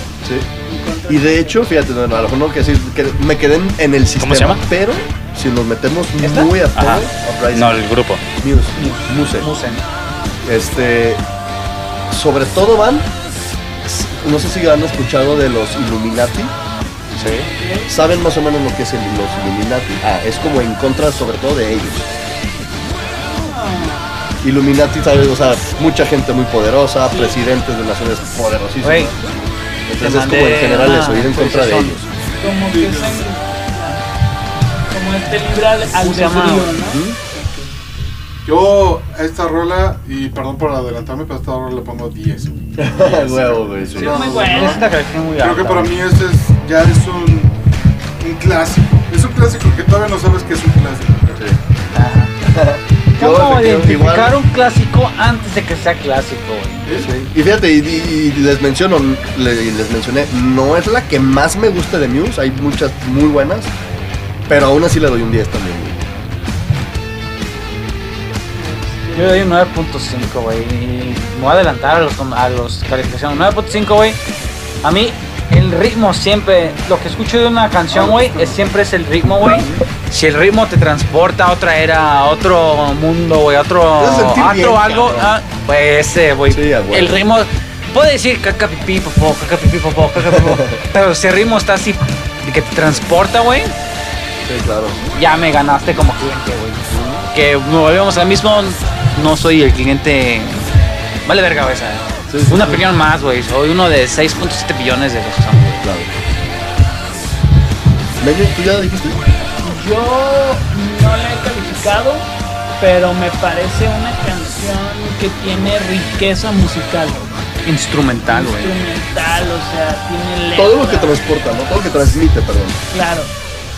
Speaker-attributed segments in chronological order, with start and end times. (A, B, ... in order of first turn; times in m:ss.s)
0:00.6-0:01.6 A
0:01.1-0:07.9 B
0:04.2-0:04.6 C
0:06.2-0:06.9 D
0:06.8-0:08.2 C
0:08.4-0:09.5 B
0:08.8-0:09.8 D
0:10.4-0:11.2 B
0:12.1-0:13.1 B
0:13.8-0:16.5 B
0:17.2-0:17.5 C
0:17.5-0:17.9 A
0:17.9-0:22.1 B
0:23.4-0:24.1 A
0:24.4-0:29.3 B
0:27.1-0:27.4 A
0:28.8-0:29.1 D
0:29.9-0:32.1 B
0:30.0-0:32.0 D
0:32.4-0:34.0 A
0:32.7-0:33.2 E
0:34.9-0:37.8 A
0:36.0-0:36.7 D
0:36.7-0:37.2 B
0:38.5-0:44.8 E
0:42.8-0:44.3 B
0:44.0-0:44.9 A
0:44.2-0:46.0 D
0:45.4-0:47.5 E
0:48.2-0:51.4 E
0:51.9-0:52.4 D
0:52.4-0:54.4 B
0:53.2-0:56.9 D
0:56.9-0:57.1 E
0:57.0-1:03.7 B
1:04.5-1:06.0 B
1:08.6-1:09.5 A
1:09.1-1:14.2 D
1:14.8-1:33.7 D
1:17.9-1:18.5 B
1:24.0-1:25.3 B
1:26.5-1:27.2 B
1:30.3-1:30.8 B
1:34.4-1:35.0 B
1:35.1-1:40.7 D
1:36.9-1:37.2 B
1:41.2-1:45.8 D
1:42.3-1:42.9 B
1:45.8-1:46.1 B
1:48.2-1:49.2 B
1:49.6-1:52.3 A
1:52.8-1:57.3 A
1:57.6-1:58.8 D
1:58.3-2:01.2 A
2:00.6-2:02.8 B
2:02.9-2:03.3 A